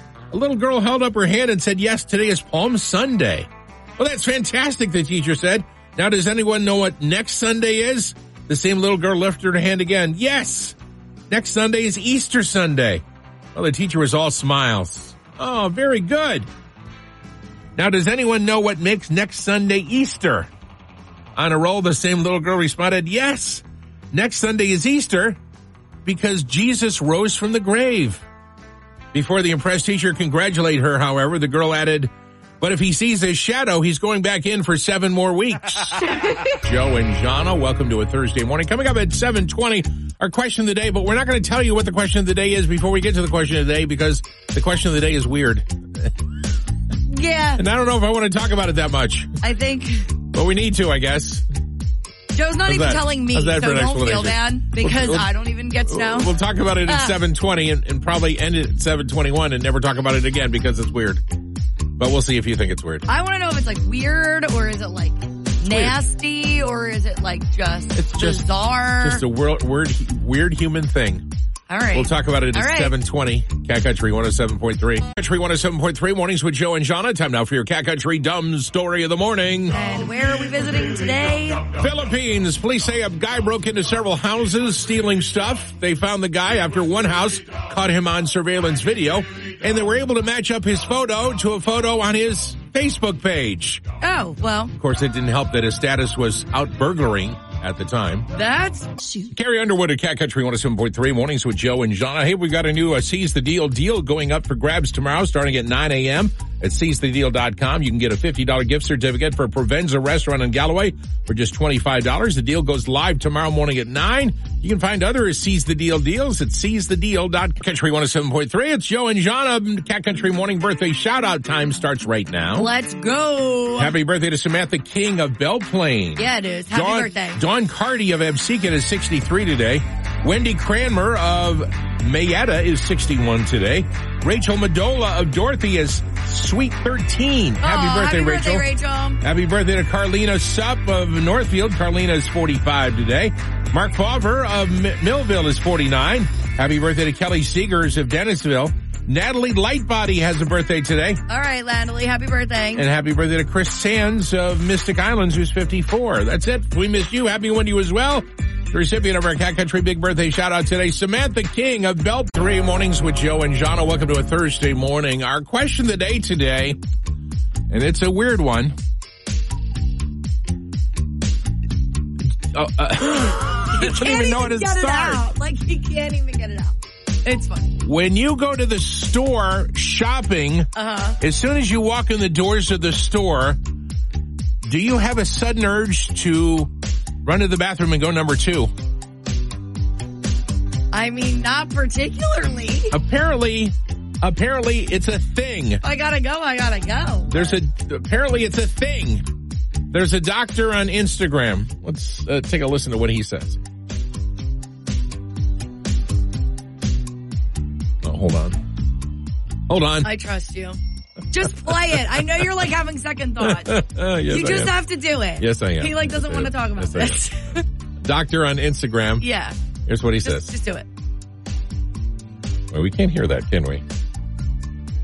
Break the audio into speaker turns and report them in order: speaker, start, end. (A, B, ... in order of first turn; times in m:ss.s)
0:00.3-0:10.8 A
0:11.3-0:13.0 A
0:13.6-0:16.5 A
0:17.8-0:20.5 A
0:21.4-0:25.4 A
0:26.0-0:28.2 A
0:29.1-0:46.1 A
0:47.1-0:47.6 B
0:47.6-0:49.3 A
0:49.4-0:50.1 B
0:50.3-0:51.5 A
0:52.3-0:56.3 B
0:52.7-0:55.3 A
0:55.9-1:01.2 A
0:56.9-0:57.2 B
1:02.0-1:03.0 A
1:03.1-1:09.2 B
1:05.6-1:06.0 A
1:08.0-1:08.4 A
1:09.0-1:11.3 A
1:11.7-1:12.9 B
1:11.9-1:19.8 A
1:19.7-1:21.7 B
1:21.7-1:33.8 A
1:34.0-1:34.7 B
1:34.8-1:38.3 A
1:38.4-1:39.0 B
1:39.3-2:02.7 A
2:02.6-2:03.9 B
2:03.8-2:18.6 A
2:06.2-2:07.4 B
2:17.6-2:19.2 B
2:19.2-2:31.2 A
2:31.3-2:32.9 B
2:32.8-2:46.8 A
2:47.7-2:48.8 A
2:52.5-2:55.2 A
2:53.6-2:57.8 B
2:57.8-3:00.7 A
3:00.8-3:01.2 B
3:01.2-3:03.6 A
3:04.6-3:06.7 A
3:07.2-3:08.7 A
3:10.9-3:12.9 B
3:12.9-3:15.8 A
3:15.8-3:17.6 B
3:17.3-3:19.2 A
3:19.9-3:23.6 A
3:28.0-3:28.6 A
3:29.7-3:30.1 A
3:30.0-3:30.8 B
3:31.3-3:37.6 B
3:31.6-3:32.0 A
3:33.4-3:34.7 A
3:35.4-3:37.3 A
3:38.0-3:39.2 A
3:39.2-3:39.6 B
3:39.9-3:40.5 A
3:40.2-3:40.9 B
3:42.7-3:43.8 A